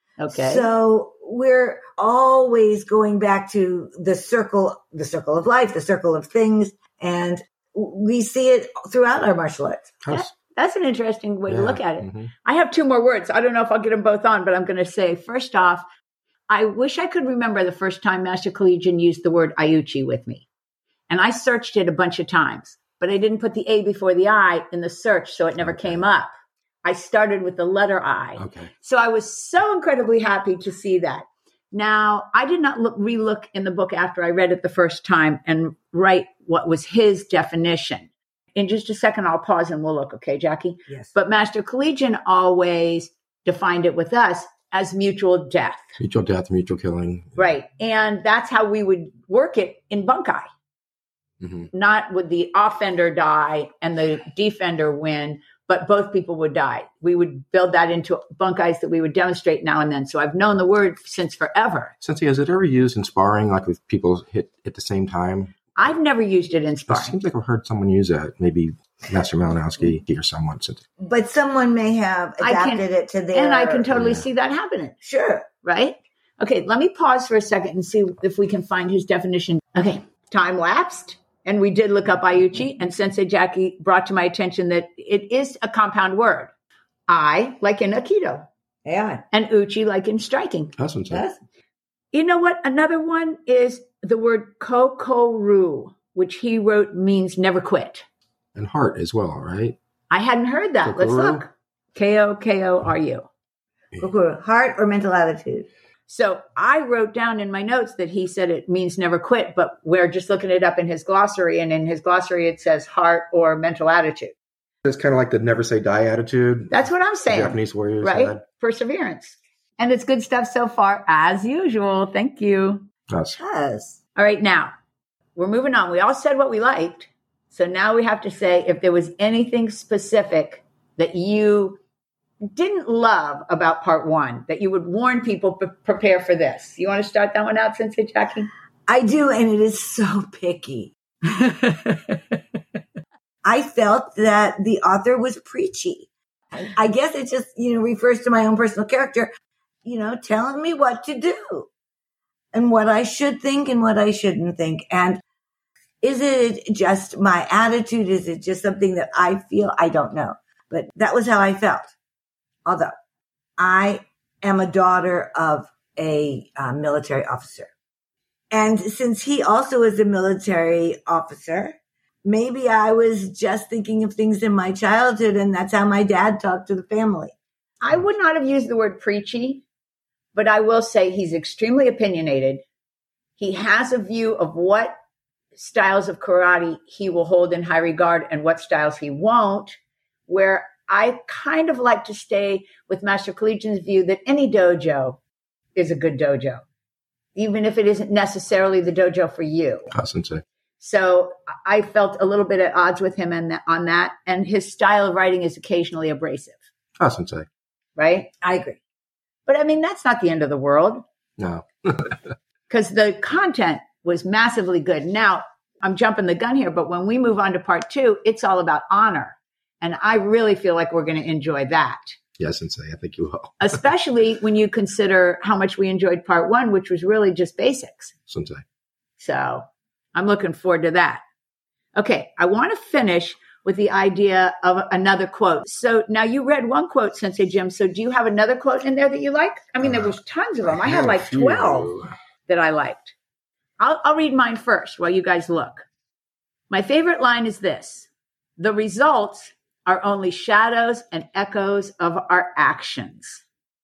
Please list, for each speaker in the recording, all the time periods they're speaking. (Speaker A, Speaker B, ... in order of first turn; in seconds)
Speaker A: 0.2-0.7, 10.1-15.8, 16.5-20.5, 21.1-26.3, 26.8-45.8, 47.4-50.5, 51.7-61.9, 65.8-67.2, 72.4-75.0, 75.6-86.5, 87.1-88.5, 89.3-90.7, 92.1-98.0, 100.1-103.3, 106.1-114.3, 116.7-122.8, 124.1-124.7, 125.3-131.8, 132.5-138.5, 141.3-142.4, 177.8-179.6, 180.3-182.6, 183.4-184.9, 185.5-195.2, 195.7-196.6, 197.3-199.9, 200.8-206.6, 208.0-208.4, 209.5-211.0, 212.7-222.1, 223.6-228.1, 229.2-231.2, 231.9-241.9, 242.5-243.1, 243.8-245.8, 246.7-253.4
Speaker B: 0.3-9.9, 40.9-41.1, 71.0-73.9, 75.0-75.5, 88.8-89.2, 91.1-91.4, 104.0-105.7, 123.4-124.0, 138.9-140.9, 143.4-149.3, 149.8-151.7, 152.5-155.2, 156.0-161.9, 162.6-162.9, 163.6-167.7, 168.5-177.3, 208.4-208.8
Speaker C: 10.0-10.3, 11.5-12.3, 25.6-26.0, 28.4-28.7, 46.0-47.4, 51.4-51.7, 62.0-65.5, 66.9-70.8, 73.9-74.2, 90.8-91.2, 98.5-99.8, 100.8-101.4, 114.8-118.4, 123.1-123.4, 199.9-200.4, 207.0-207.4, 211.4-212.2, 222.4-223.6, 228.3-228.6, 239.8-242.1